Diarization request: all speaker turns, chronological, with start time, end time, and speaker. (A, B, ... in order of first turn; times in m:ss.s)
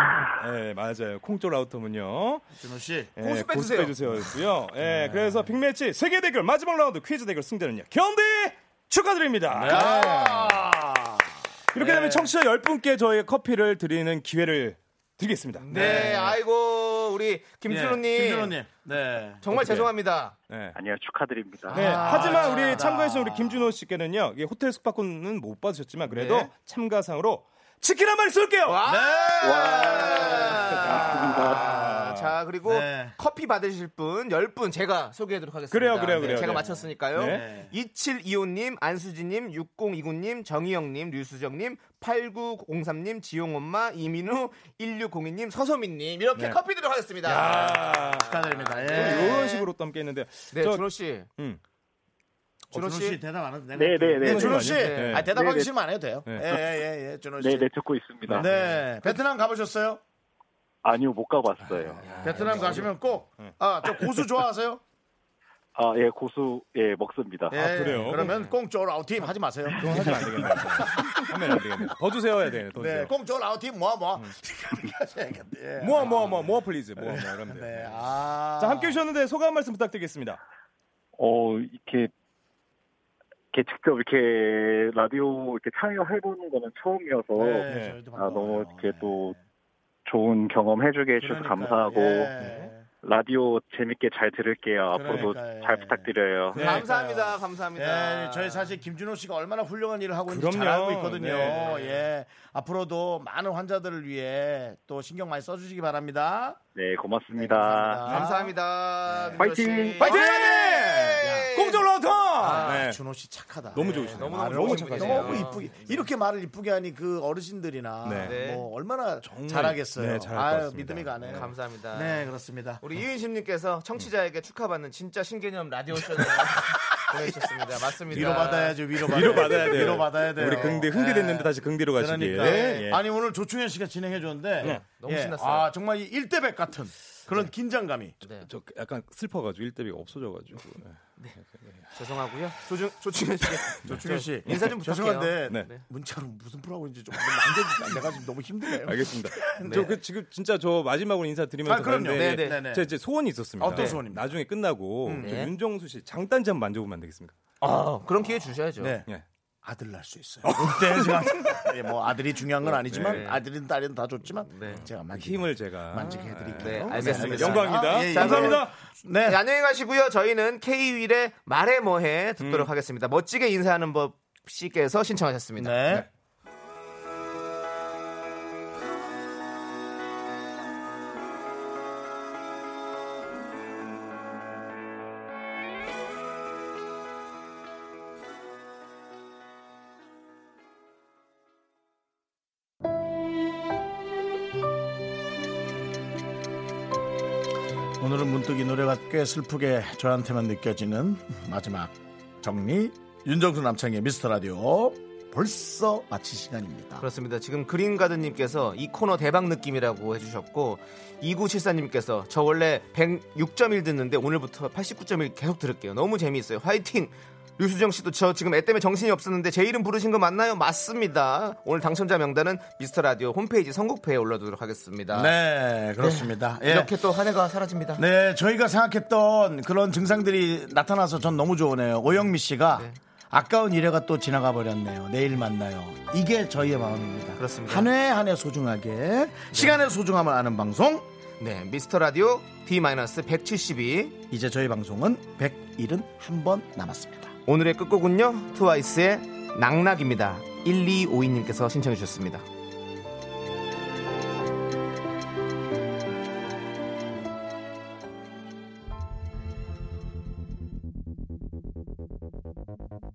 0:00.3-0:02.4 A
0:02.6-0:03.1 B
0:03.2-0:10.1 A
0:03.2-0:04.0 C
0:04.8-0:05.5 B
0:09.5-0:12.1 B
0:09.7-0:10.3 C
0:11.7-0:16.2 A
0:11.8-0:12.3 C
0:15.6-0:18.6 C
0:15.7-0:16.4 B
0:17.7-0:19.4 B
0:19.4-0:20.4 C
0:19.5-0:19.9 A
0:20.5-0:20.8 A
0:20.8-0:21.9 D
0:21.7-0:23.7 B
0:21.7-0:23.0 C
0:21.7-0:28.8 A
0:26.1-0:26.5 C
0:28.7-0:49.7 C
0:28.8-0:30.9 B
0:29.4-0:30.2 D
0:30.7-0:32.3 A
0:31.1-0:31.7 D
0:32.6-0:33.2 B
0:35.7-0:37.4 A
0:36.4-0:37.7 B
0:47.2-0:50.8 A
0:48.1-0:49.6 B
0:50.5-0:51.3 C
0:52.7-0:53.2 C
0:52.7-0:57.7 B
0:53.8-0:54.6 D
0:54.2-0:55.3 A
0:54.3-0:55.3 C
0:55.3-0:55.7 D
0:57.4-0:58.5 D
0:58.3-1:00.0 B
0:58.3-0:58.6 A
1:00.8-1:02.2 D
1:01.6-1:04.2 A
1:02.0-1:02.9 C
1:02.1-1:04.8 B
1:05.8-1:07.6 D
1:07.5-1:11.8 B
1:07.5-1:08.3 A
1:08.0-1:08.5 C
1:09.8-1:13.1 A
1:12.8-1:19.0 B
1:15.8-1:18.0 A
1:18.6-1:20.4 A
1:21.2-1:22.1 D
1:23.5-1:29.4 D
1:27.4-1:29.4 B
1:27.7-1:28.0 A
1:30.1-1:32.3 D
1:31.2-1:32.9 B
1:33.0-1:36.7 D
1:34.9-1:46.6 B
1:36.5-1:36.9 A
1:36.6-1:38.7 C
1:40.3-1:41.8 A
1:41.5-1:42.0 C
1:46.8-1:48.2 D
1:47.3-1:48.5 B
1:48.0-1:52.8 C
1:49.1-1:49.4 B
1:49.4-1:50.1 D
1:50.0-1:53.0 A
1:50.0-1:50.5 B
1:51.2-1:51.6 B
1:52.4-2:02.8 B
1:53.8-1:55.6 A
1:53.8-1:56.1 C
1:58.0-1:58.4 A
1:58.2-1:58.7 C
1:59.2-2:01.5 A
2:01.3-2:02.3 C
2:02.8-2:11.0 C
2:08.1-2:18.2 B
2:09.0-2:13.0 A
2:12.3-2:12.9 C
2:14.6-2:15.7 C
2:18.2-2:18.5 C
2:18.4-2:21.0 A
2:21.9-2:25.8 C
2:23.8-2:30.0 B
2:23.9-2:24.6 A
2:28.8-2:37.4 A
2:31.6-2:32.9 B
2:32.1-2:32.6 C
2:33.6-2:34.3 B
2:33.7-2:34.0 C
2:35.0-2:35.4 B
2:35.2-2:35.5 C
2:37.6-2:39.0 C
2:38.8-2:39.1 B
2:39.6-2:49.4 B
2:40.4-2:41.4 A
2:42.7-2:43.4 C
2:42.9-2:43.3 A
2:44.4-2:44.8 C
2:45.1-2:48.8 A
2:46.6-2:48.7 C
2:49.2-2:56.1 C
2:52.4-2:52.7 A
2:55.6-2:56.1 B
3:18.0-3:27.0 B
3:27.0-3:45.4 C
3:45.1-3:46.9 B
3:46.0-3:48.0 C
3:48.0-4:01.1 B
3:57.4-3:57.9 C
3:59.5-3:59.8 C
4:01.4-4:04.2 C
4:04.3-4:07.3 B
4:07.5-4:12.5 C